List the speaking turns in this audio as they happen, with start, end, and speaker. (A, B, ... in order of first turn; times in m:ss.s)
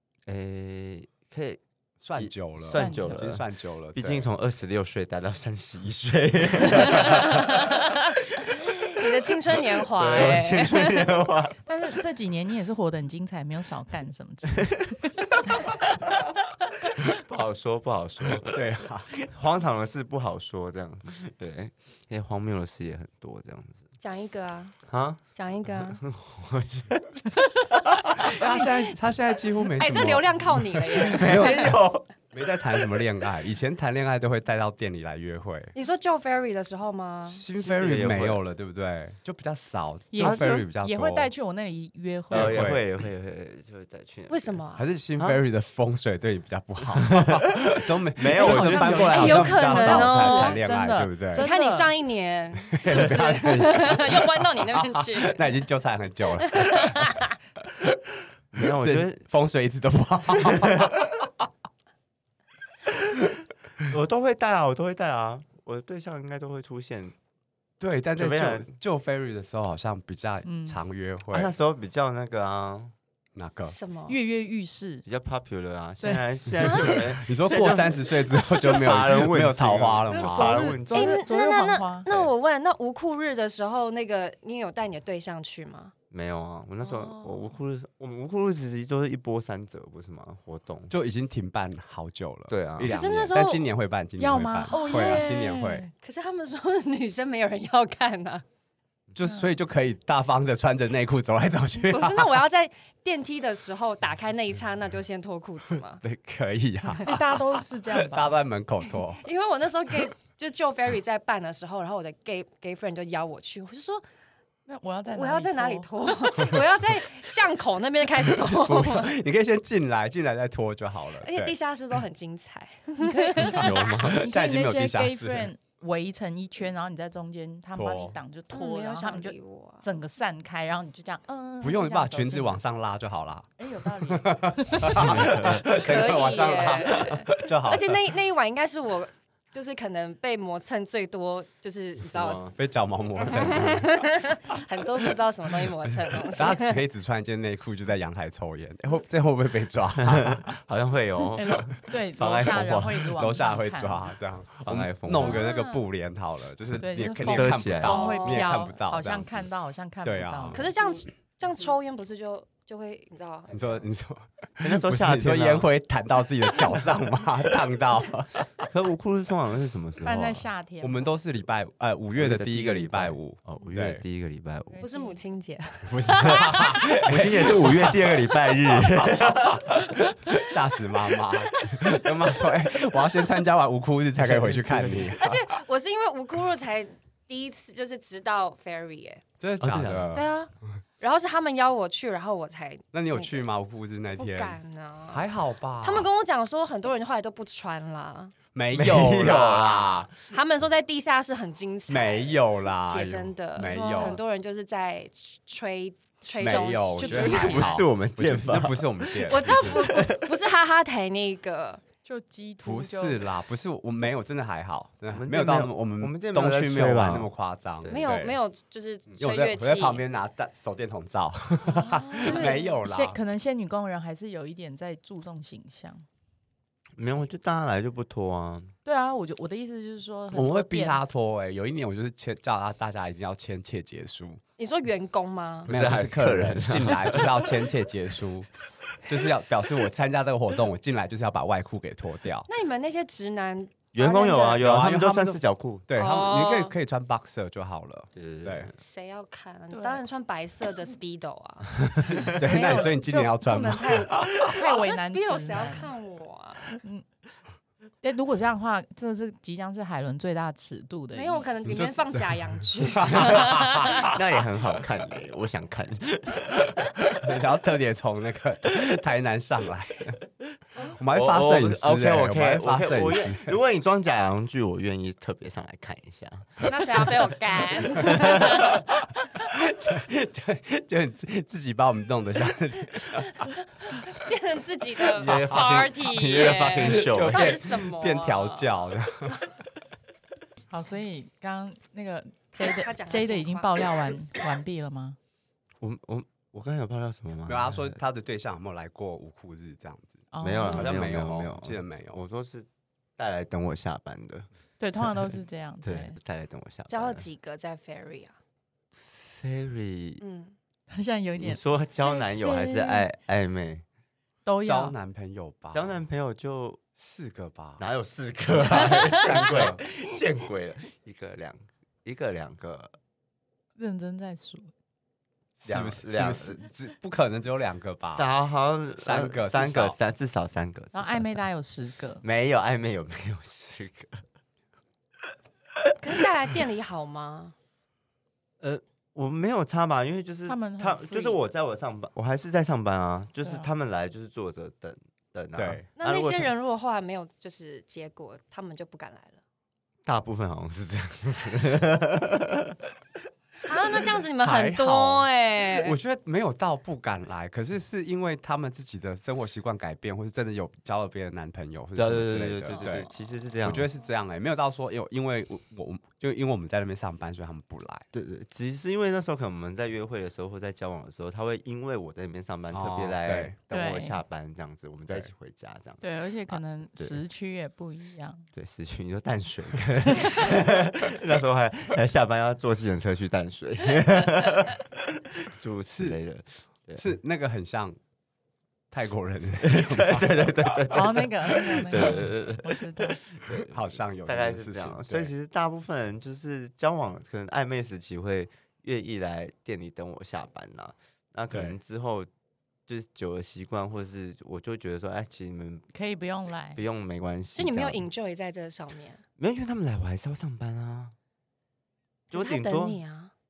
0:00.3-0:01.6 A
0:02.0-0:04.3 B
0:02.2-0:11.6 A
0:02.7-0:03.2 C
0:06.8-0:08.2 D
0:08.9-0:11.1 D
0:11.6-0:15.2 C
0:17.2-0:23.9 A
0:18.4-0:19.1 B
0:24.0-0:24.8 D
0:24.9-0:28.4 A
0:25.4-0:26.0 D
0:28.2-0:31.8 B
0:29.8-0:31.8 D
0:31.0-0:32.0 A
0:32.3-0:35.7 B
0:35.7-0:37.4 D
0:37.3-0:41.3 B
0:37.6-0:38.4 A
0:40.1-0:42.6 C
0:40.2-0:40.6 A
0:42.3-0:42.8 B
0:42.3-0:44.6 A
0:44.3-0:44.8 D
0:44.8-0:51.5 B
0:45.2-0:45.4 A
0:46.9-0:49.3 A
0:48.3-0:51.9 C
0:49.1-0:50.6 D
0:51.3-0:55.5 D
0:52.6-0:58.0 B
0:56.4-0:57.4 D
0:58.5-0:59.2 A
0:58.6-1:01.3 B
1:00.3-1:00.9 A
1:03.9-1:07.1 A
1:07.8-1:11.5 B
1:08.1-1:08.7 A
1:10.4-1:10.8 C
1:11.3-1:12.9 A
1:13.3-1:13.8 B
1:13.6-1:14.2 D
1:14.1-1:15.0 C
1:15.0-1:21.2 A
1:16.0-1:16.9 C
1:17.1-1:20.8 B
1:20.1-1:22.1 C
1:20.9-1:25.9 D
1:26.1-1:30.9 A
1:26.8-1:27.4 D
1:30.9-1:35.9 B
1:32.5-1:32.9 A
1:32.8-1:33.7 D
1:34.2-1:35.9 C
1:34.7-1:35.3 D
1:36.0-1:38.4 D
1:39.1-1:42.4 B
1:41.9-1:46.0 D
1:46.0-1:49.2 B
1:47.0-1:48.3 C
1:49.2-1:54.0 D
1:54.7-1:56.1 C
1:55.1-1:59.1 D
1:58.5-2:01.5 B
2:01.2-2:04.0 D
2:03.0-2:12.6 C
2:03.5-2:04.3 A
2:04.0-2:05.5 B
2:07.7-2:08.2 B
2:08.5-2:09.8 D
2:11.6-2:13.6 B
2:13.6-2:15.0 C
2:14.1-2:18.1 B
2:14.9-2:15.8 A
2:15.4-2:22.5 D
2:22.1-2:22.5 A
2:22.6-2:24.0 B
2:23.2-2:26.8 D
2:25.6-2:30.6 B
2:30.0-2:33.2 A
2:31.4-2:34.1 C
2:33.2-2:39.4 B
2:34.6-2:35.4 A
2:35.2-2:35.8 D
2:36.8-2:40.6 C
2:37.1-2:38.2 A
2:37.8-2:38.5 D
2:40.0-2:40.7 B
2:40.5-2:43.8 D
2:43.5-2:48.4 B
2:44.6-2:45.7 A
2:48.6-2:50.4 A
2:50.0-2:51.0 C
2:50.8-2:54.0 B
2:52.2-2:54.8 A
2:54.7-2:55.2 C
2:54.8-2:57.0 D
2:55.8-3:05.4 B
2:57.0-2:59.7 A
3:04.2-3:05.1 A
3:05.1-3:09.2 D
3:09.4-3:10.3 B
3:09.6-3:10.2 A
3:10.1-3:13.5 D
3:12.9-3:14.6 B
3:14.2-3:15.3 D
3:15.1-3:16.1 B
3:15.8-3:18.3 D
3:18.5-3:20.1 B
3:18.7-3:20.1 A
3:20.1-3:27.8 D
3:21.9-3:24.2 B
3:26.3-3:30.1 B
3:27.0-3:30.2 A
3:29.1-3:31.8 D
3:32.0-3:33.3 C
3:32.6-3:38.4 B
3:35.1-3:37.3 A
3:37.8-3:38.2 A
3:37.9-3:40.0 D
3:39.1-3:43.2 B
3:41.8-3:42.7 D
3:42.1-3:46.0 C
3:47.0-3:48.7 A
3:48.8-3:51.0 C
3:50.3-3:54.4 B
3:54.6-3:55.7 D
3:55.6-3:57.7 A
3:55.7-3:58.5 B
3:59.0-4:02.5 B
4:02.5-4:04.6 D
4:03.9-4:05.8 A
4:04.5-4:08.7 B
4:06.0-4:06.7 D
4:08.2-4:08.7 A
4:08.8-4:12.6 D
4:09.7-4:10.0 C
4:12.2-4:14.4 B
4:12.4-4:13.7 C
4:13.4-4:16.7 D
4:14.4-4:15.9 C
4:18.0-4:21.4 C
4:21.1-4:24.2 D
4:21.7-4:24.2 B
4:23.9-4:26.6 A
4:26.7-4:30.2 B
4:30.8-4:33.6 B
4:31.1-4:37.1 A
4:36.6-4:38.8 D
4:38.0-4:38.7 A
4:38.0-4:38.8 B
4:39.4-4:43.6 B
4:44.1-4:48.9 D
4:45.1-4:47.6 A
4:46.8-4:49.4 B
4:50.7-4:55.2 C
4:52.5-4:53.8 D
4:55.8-4:58.0 A
4:57.4-5:02.2 B
5:00.3-5:01.0 C
5:00.4-5:04.4 A
5:04.8-5:06.2 C
5:05.8-5:07.2 A
5:06.9-5:08.3 D
5:09.0-5:10.2 A
5:10.2-5:10.5 D
5:10.9-5:13.1 C
5:11.4-5:13.8 A
5:14.4-5:15.0 C
5:14.6-5:16.0 B
5:15.7-5:16.8 A
5:17.0-5:17.8 B
5:17.8-5:22.9 A
5:18.6-5:19.8 B
5:23.8-5:24.7 C
5:25.6-5:28.3 B
5:25.6-5:26.6 A
5:28.1-5:31.4 A
5:29.0-5:30.0 B
5:30.9-5:32.2 C
5:32.2-5:34.2 A
5:36.0-5:37.5 D
5:38.6-5:46.5 A
5:40.5-5:41.4 C
5:43.4-5:43.7 C
5:45.6-5:45.9 B
5:46.0-5:49.4 D
5:50.0-5:52.9 A
5:53.6-5:56.0 D
5:54.4-5:55.3 B
5:55.8-6:03.1 B
6:01.9-6:03.9 A
6:02.7-6:03.0 D
6:03.6-6:08.0 B
6:08.1-6:17.2 A
6:12.7-6:13.5 B
6:13.7-6:14.2 C
6:16.0-6:18.4 C
6:18.5-6:27.2 A
6:27.0-6:28.0 B
6:28.9-6:31.2 B
6:29.6-6:42.3 A
6:30.9-6:33.2 C
6:33.5-6:35.3 B
6:41.5-6:41.8 B
6:42.9-6:45.9 A
6:45.9-6:46.8 C
6:46.7-6:48.0 A
6:47.6-6:49.2 D
6:49.4-6:51.1 A
6:52.3-6:53.0 A
6:52.3-6:53.3 D